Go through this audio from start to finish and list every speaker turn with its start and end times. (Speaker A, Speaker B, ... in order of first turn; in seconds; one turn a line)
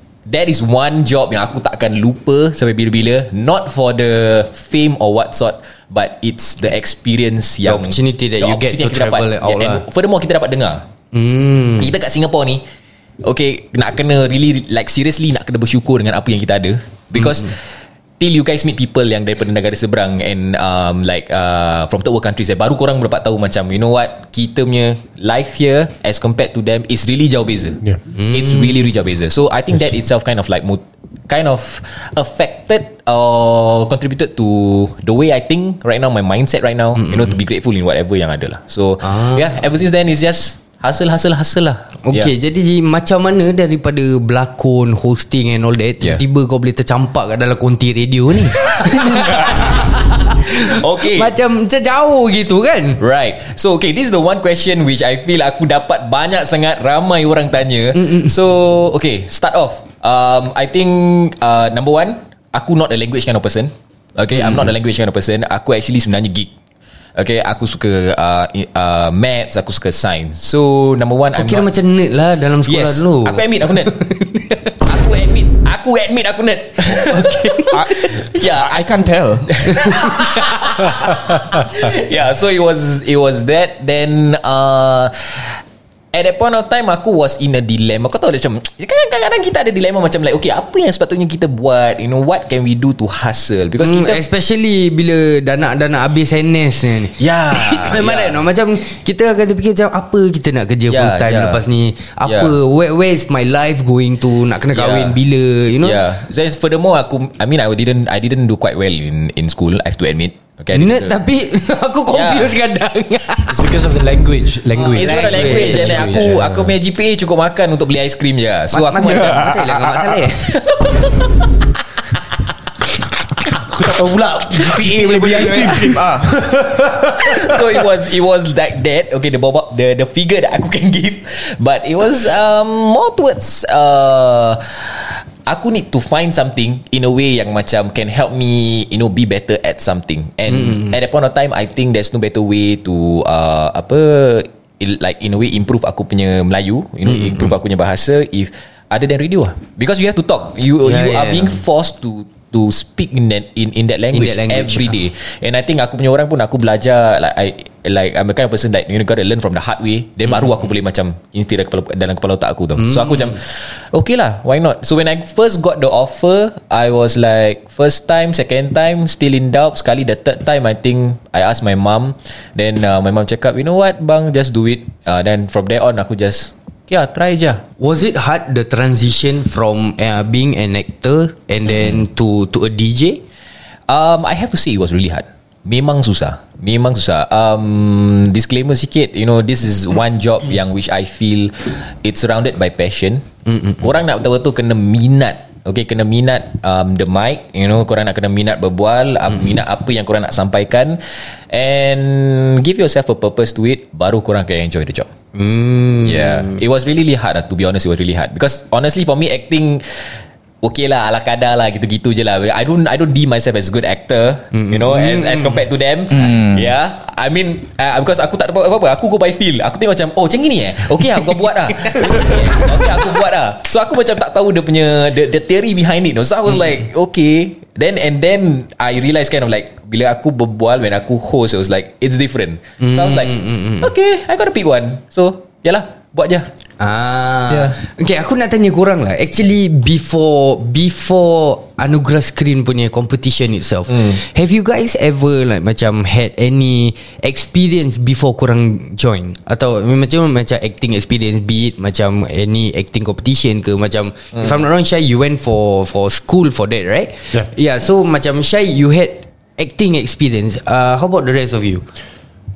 Speaker A: 0.2-10.8
Speaker B: 7.6-9.8
Speaker B: 11.1-11.9
Speaker A: 11.8-12.6
Speaker A: 13.2-17.6
Speaker B: 17.1-17.5
Speaker A: 18.2-42.3
Speaker B: 28.2-28.8
Speaker B: 37.0-37.3
Speaker B: 39.0-39.4
Speaker B: 42.0-53.0
Speaker A: 48.6-49.9
Speaker A: 50.4-51.3
Speaker A: 53.0-66.5
Speaker B: 57.9-58.3
Speaker B: 64.3-64.7
Speaker A: 67.2-71.7
Speaker B: 71.3-74.7
Speaker A: 72.7-74.0
Speaker A: 74.8-78.9
Speaker B: 77.0-77.8
Speaker C: 77.7-79.6
Speaker A: 79.5-85.6
Speaker B: 79.8-80.1
Speaker A: 86.1-94.2
Speaker B: 93.8-106.0
Speaker A: 97.2-98.4
Speaker A: 100.9-101.6
Speaker A: 102.2-102.5
Speaker A: 104.7-105.2
Speaker A: 105.8-111.1
Speaker B: 110.7-113.6
Speaker A: 112.1-112.5
Speaker D: 113.5-116.7
Speaker B: 114.7-116.3
Speaker A: 114.8-121.3
Speaker B: 118.7-120.6
Speaker C: 119.1-119.7
Speaker D: 123.6-127.9
Speaker C: 124.6-126.3
Speaker A: 127.2-177.6
Speaker B: 140.5-140.9
Speaker B: 147.0-147.5
Speaker B: 150.8-151.6
Speaker B: 154.1-155.0
Speaker B: 162.8-163.4
Speaker B: 177.8-183.2
Speaker A: 181.7-182.0
Speaker A: 183.9-193.3
Speaker A: 193.8-205.1
Speaker B: 205.3-206.6
Speaker A: 206.0-236.5
Speaker B: 214.5-215.6
Speaker C: 216.1-216.7
Speaker B: 221.2-223.0
Speaker B: 232.8-233.9
Speaker B: 236.8-261.8